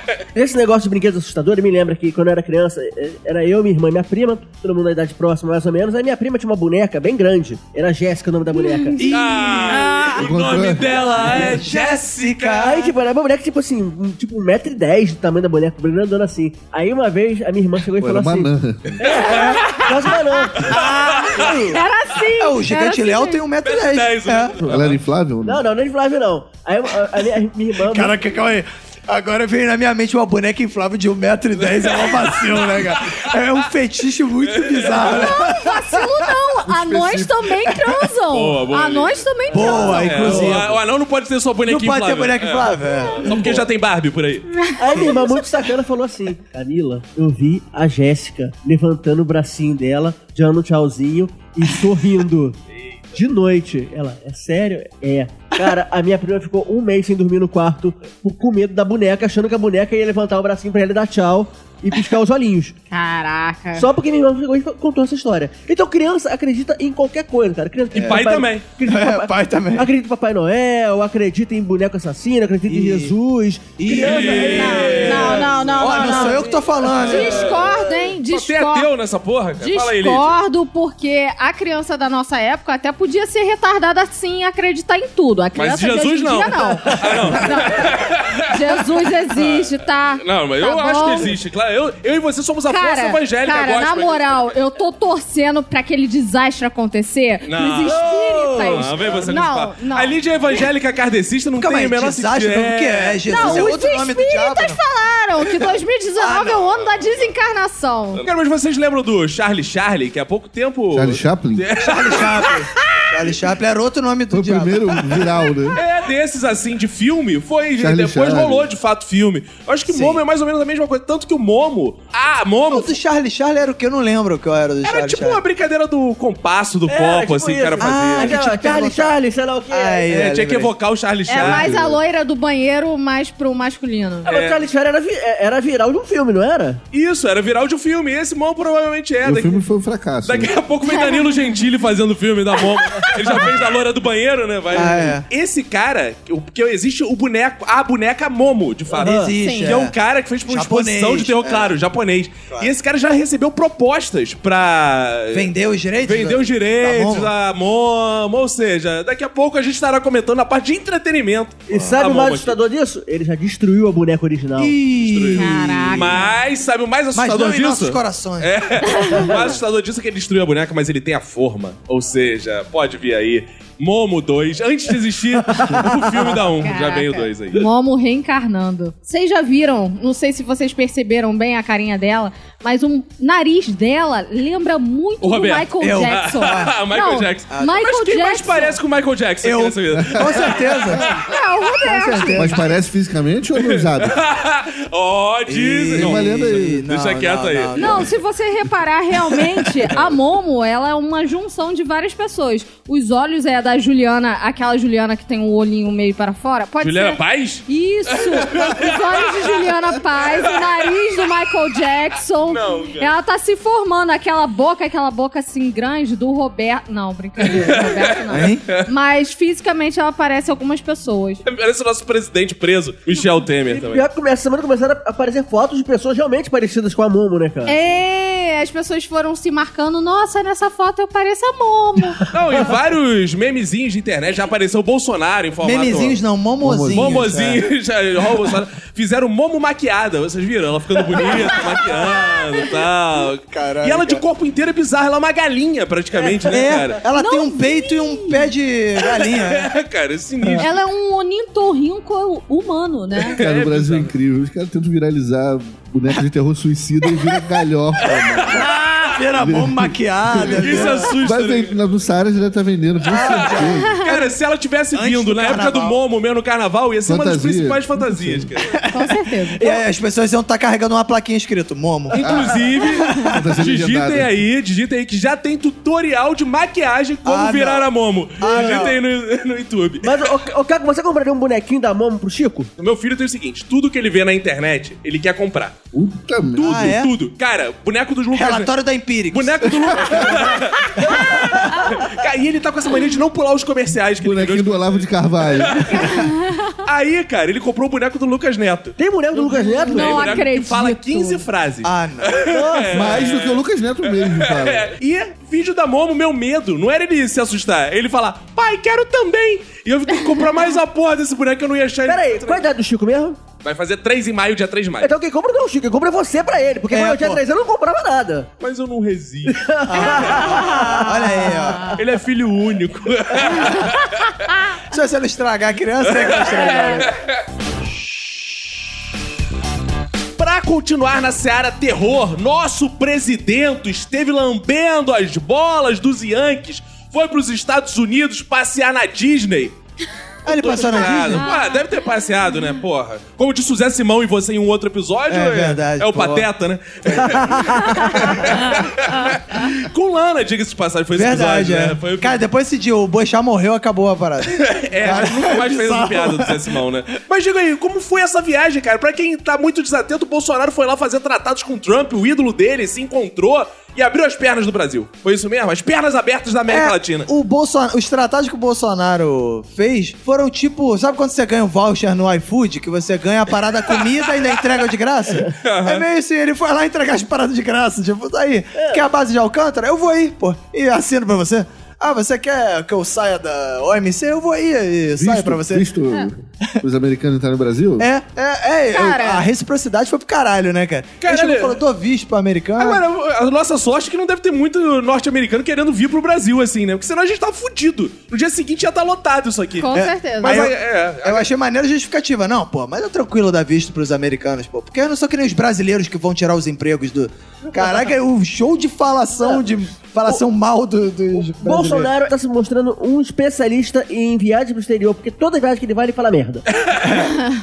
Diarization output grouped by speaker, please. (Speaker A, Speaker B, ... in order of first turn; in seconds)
Speaker A: 0.3-9.0, 12.6-20.7, 25.4-28.1, 39.6-40.6, 43.3-43.6, 44.8-52.6, 53.1-62.7, 63.8-78.1, 86.8-87.4, 97.8-99.2, 126.9-130.2, 134.2-136.8, 149.0-149.3, 161.7-164.8, 175.6-176.2, 223.7-227.8, 278.4-278.9, 280.0-282.7, 291.0-292.0, 299.0-300.4, 302.4-303.1, 312.0-313.4, 315.0-318.5, 319.5-321.3, 378.8-379.0, 409.4-409.6, 411.3-416.6
Speaker B: 8.5-10.1, 19.3-23.4, 35.0-40.5, 44.6-44.8, 62.9-63.9, 74.3-76.4, 77.0-78.9, 79.6-91.3, 92.7-100.2, 103.3-108.2, 112.8-113.1, 131.3-134.3, 140.8-141.6, 149.4-149.8, 165.3-166.3, 168.8-169.3, 176.6-188.8, 191.2-192.6, 197.8-221.4, 227.6-232.2, 241.3-242.7, 247.1-248.5, 250.6-253.4, 264.0-264.3, 268.9-269.8, 295.9-296.8, 299.4-301.4, 320.1-320.8, 323.6-323.9, 326.6-327.0, 341.4-342.0, 388.9-389.4, 399.8-400.7
Speaker C: 9.0-10.1, 11.2-12.9, 19.2-19.6, 20.7-21.8, 22.4-24.5, 27.8-36.0, 37.6-38.0, 39.5-40.8, 41.7-43.6, 44.9-45.3, 67.9-68.3, 68.8-69.9, 72.7-73.1, 73.8-77.6, 101.5-104.8, 106.2-107.0, 111.8-115.3, 119.9-120.2, 122.7-125.4, 127.8-129.2, 129.7-130.7, 144.7-145.2, 148.9-149.9, 150.5-151.8, 155.3-157.3, 161.7-162.0, 164.6-166.3, 167.1-168.5, 185.8-186.7, 187.5-187.8, 189.4-191.2, 191.8-192.7, 195.5-198.1, 218.3-218.7, 235.6-237.7, 243.5-244.2, 246.4-249.7, 258.5-261.1, 263.0-263.9, 264.9-266.0, 268.6-272.2, 272.8-273.4, 277.2-279.0, 286.6-287.1, 288.3-290.6, 301.8-302.6, 316.9-317.4, 319.9-322.0, 324.9-327.1, 340.4-341.5, 345.3-346.5, 347.0-348.8, 351.1-356.7, 366.7-385.9, 388.0-393.0, 399.9-412.1
Speaker D: 9.1-12.7, 19.0-20.0, 20.6-21.6, 23.6-25.0, 31.6-33.6, 34.4-35.3, 38.3-44.5, 67.9-68.7, 73.9-75.5, 77.1-77.3, 78.3-80.3, 85.5-94.5, 97.4-98.0, 98.7-103.7, 108.2-112.5, 115.7-123.0, 124.8-128.4, 130.1-131.8, 134.3-134.6, 136.9-139.6, 140.2-162.6, 165.0-177.6, 185.2-191.3, 193.5-197.9, 206.8-209.6, 210.2-210.7, 212.5-213.1, 217.4-218.1, 221.4-224.0, 232.3-236.2, 236.9-247.0, 249.0-250.8, 253.2-254.1, 258.1-259.2, 260.5-261.7, 263.2-268.7, 272.1-280.4, 282.8-285.8, 286.6-288.7, 289.3-296.2, 296.8-299.0, 299.8-312.6, 313.6-315.1, 318.6-319.6, 321.9-324.3, 326.0-327.3, 330.4-339.8, 340.5-352.4, 354.5-367.3, 375.6-376.0, 391.2-391.8, 392.8-401.5, 416.7-417.2
Speaker E: 10.1-11.5, 18.0-19.0, 24.6-25.6, 36.7-37.3, 110.9-111.7, 114.3-115.8, 117.8-118.7, 131.4-132.0, 139.2-140.5, 189.9-191.1, 192.3-194.2, 195.9-196.8, 236.6-237.3, 253.4-258.7, 259.4-264.0, 267.1-268.5, 272.2-274.4, 285.9-287.0, 294.2-296.1, 302.9-304.9, 385.1-388.1